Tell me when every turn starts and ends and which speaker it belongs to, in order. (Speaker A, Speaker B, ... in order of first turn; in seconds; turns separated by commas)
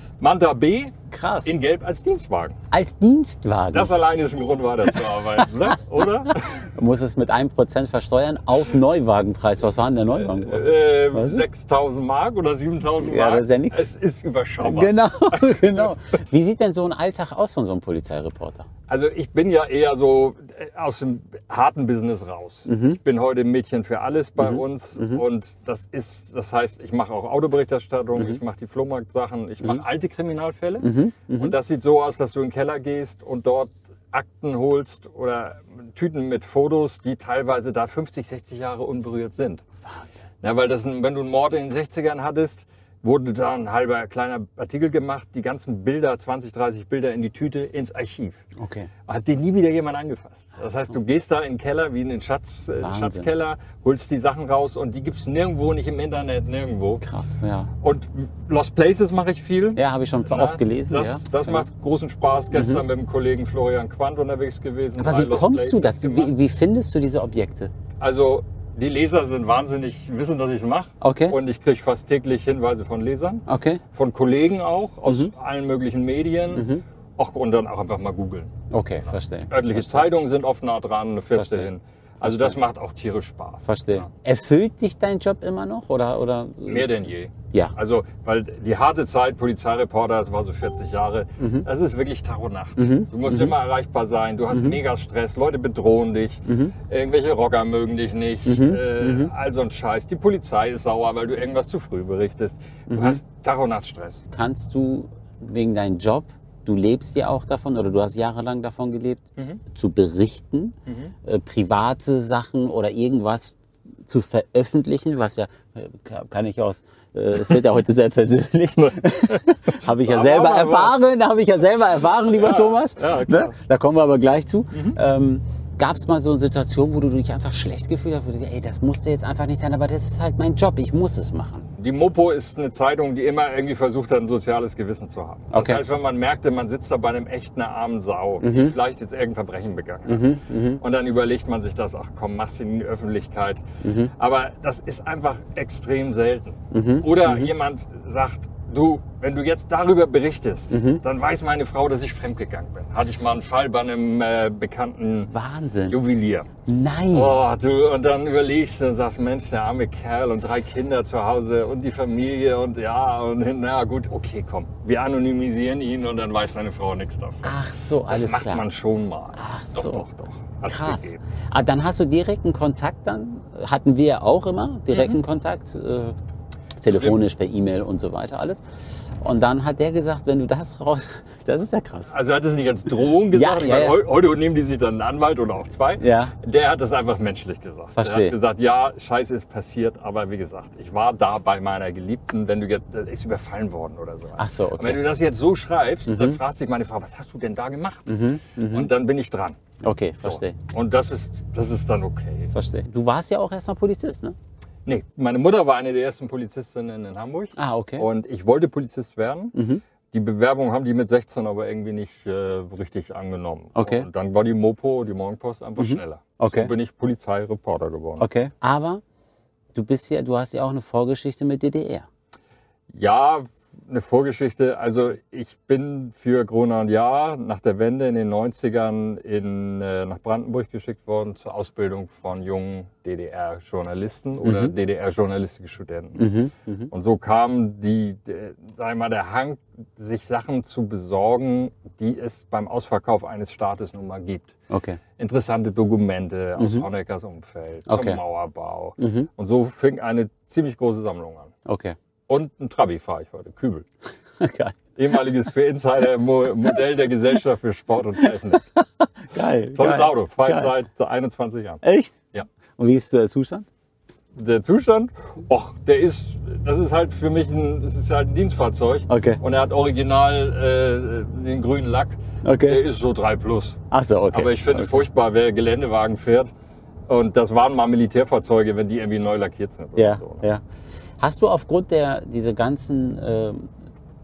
Speaker A: 0.2-0.9, Speaker B: 1.1-1.5, Speaker A: 1.4-2.5, Speaker B: 2.7-3.9, Speaker A: 3.7-6.5, Speaker B: 5.4-5.7, Speaker B: 6.3-11.4, Speaker A: 10.2-15.9, Speaker B: 13.0-13.9, Speaker B: 14.6-18.7, Speaker A: 18.9-39.6, Speaker B: 22.7-23.0, Speaker B: 24.4-25.2, Speaker B: 30.8-31.5, Speaker B: 39.9-40.3, Speaker A: 40.4-48.4, Speaker B: 48.6-48.9, Speaker A: 49.0-57.0, Speaker B: 52.8-53.3, Speaker B: 57.0-57.7, Speaker A: 57.8-66.3, Speaker B: 59.8-61.6, Speaker B: 62.5-62.8, Speaker B: 65.0-67.7, Speaker A: 68.0-78.5, Speaker B: 71.0-71.4, Speaker B: 73.5-73.8, Speaker B: 76.5-76.8, Speaker B: 78.7-80.1, Speaker A: 79.5-84.1, Speaker B: 81.3-81.7, Speaker B: 82.2-82.6, Speaker B: 83.7-86.9, Speaker A: 86.7-104.2, Speaker B: 91.4-91.7, Speaker B: 92.8-93.5, Speaker B: 94.5-94.8, Speaker B: 96.5-96.7, Speaker B: 98.5-99.3, Speaker B: 102.9-103.2, Speaker B: 104.3-131.7, Speaker A: 110.9-111.1, Speaker A: 118.8-121.1, Speaker A: 122.3-123.6, Speaker A: 124.7-125.0, Speaker A: 131.8-143.6, Speaker B: 135.5-135.8, Speaker B: 138.4-138.7, Speaker B: 140.1-140.8, Speaker B: 143.8-144.1, Speaker A: 144.2-155.3, Speaker B: 146.7-147.5, Speaker B: 150.7-151.0, Speaker B: 155.3-156.0, Speaker A: 155.9-156.5, Speaker B: 156.7-157.4, Speaker A: 157.1-167.6, Speaker B: 167.4-168.7, Speaker A: 168.1-171.2, Speaker B: 169.3-170.1, Speaker B: 170.6-176.2, Speaker A: 174.9-175.2, Speaker B: 176.8-178.6, Speaker A: 176.8-177.2, Speaker B: 179.2-182.1, Speaker A: 182.1-198.2, Speaker B: 183.3-183.9, Speaker B: 186.0-186.3, Speaker B: 187.9-188.3, Speaker B: 194.4-195.0, Speaker B: 196.1-196.4, Speaker B: 198.1-198.9, Speaker A: 198.7-199.6, Speaker B: 199.8-200.6, Speaker A: 200.2-202.5, Speaker B: 202.5-204.3, Speaker A: 204.8-209.5, Speaker B: 207.6-208.1, Speaker B: 209.5-209.8, Speaker A: 210.1-218.3, Speaker B: 213.7-214.1, Speaker B: 215.8-216.7, Speaker B: 218.2-219.0, Speaker B: 219.7-222.1, Speaker A: 222.9-236.3, Speaker B: 234.4-234.7, Speaker B: 236.2-236.9, Speaker A: 236.9-244.5, Speaker B: 244.7-245.0, Speaker A: 245.2-251.5, Speaker B: 246.6-246.9, Speaker B: 247.9-248.2, Speaker B: 249.0-249.3, Speaker B: 251.7-251.9, Speaker A: 252.3-253.9, Speaker B: 254.4-254.8, Speaker A: 254.9-258.7, Speaker B: 258.8-260.7, Speaker A: 259.7-261.8, Speaker B: 261.8-262.1, Speaker B: 262.8-263.7, Speaker A: 264.3-273.8, Speaker B: 269.1-269.4, Speaker B: 272.4-272.8, Speaker B: 273.9-275.0, Speaker A: 274.3-276.5, Speaker A: 277.1-280.4, Speaker B: 279.9-280.6, Speaker B: 281.2-283.7